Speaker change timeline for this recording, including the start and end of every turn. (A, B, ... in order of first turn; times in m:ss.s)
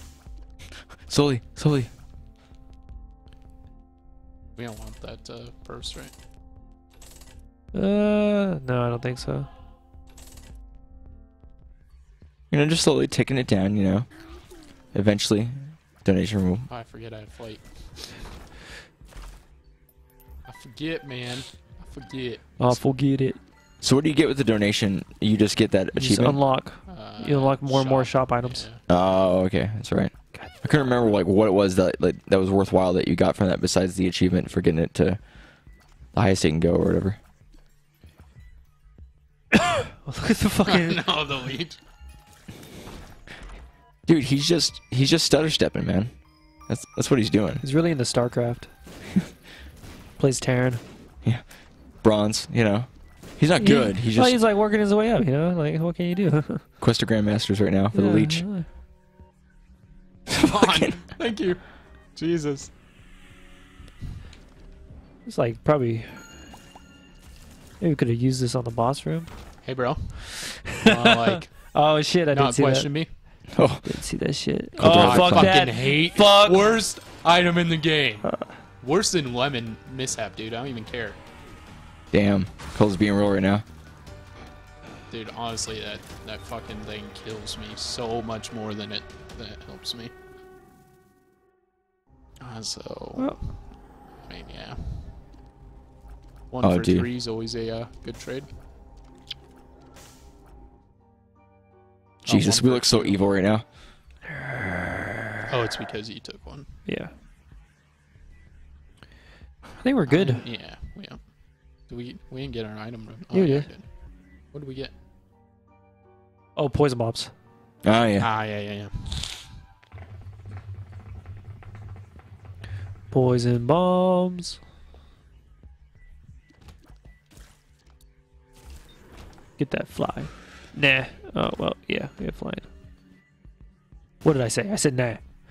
0:01.1-0:01.9 A
0:04.6-0:06.1 B
0:07.7-0:09.5 C
0:12.5-0:14.1 A
0:14.9-0:16.7 A
0:16.7-0:18.3 B
0:20.5-0:22.7 B
0:22.6-0:23.4 C
0:23.8-0:26.4 A
0:26.0-0:28.7 C
0:26.9-0:28.8 B
0:28.9-0:35.3 A
0:36.1-0:37.2 A
0:39.6-0:41.0 C
0:40.6-0:41.8 B
0:44.1-0:46.1 A
0:46.7-0:47.6 A
0:47.6-0:48.7 C
0:50.2-0:50.8 C
0:51.2-0:54.4 A
0:53.6-0:56.7 C
0:56.8-0:58.5 A
0:57.9-0:58.7 C
1:00.3-1:01.0 A
1:00.3-1:02.7 B
1:05.3-1:06.2 C
1:07.8-1:09.3 C
1:09.6-1:11.7 B
1:10.3-1:12.9 C
1:12.3-1:13.1 B
1:13.5-1:14.0 A
1:13.8-1:16.8 C
1:14.8-1:15.6 A
1:14.9-1:21.2 B
1:18.3-1:18.5 C
1:22.1-1:23.6 A
1:25.1-1:30.1 B
1:32.4-1:33.7 B
1:34.2-1:35.2 B
1:36.5-1:38.5 B
1:36.6-1:37.1 A
1:42.2-1:43.2 B
1:42.3-1:43.6 A
1:44.5-1:45.0 C
1:45.5-1:46.7 B
1:46.9-1:47.1 C
1:49.8-1:50.4 C
1:50.1-1:51.2 B
1:51.9-1:53.9 B
1:53.3-1:53.7 C
1:54.5-1:54.9 B
1:56.6-1:57.3 C
1:57.8-1:58.3 A
1:58.2-1:59.5 B
2:03.1-2:04.6 C
2:09.6-2:12.7 C
2:14.2-2:15.2 C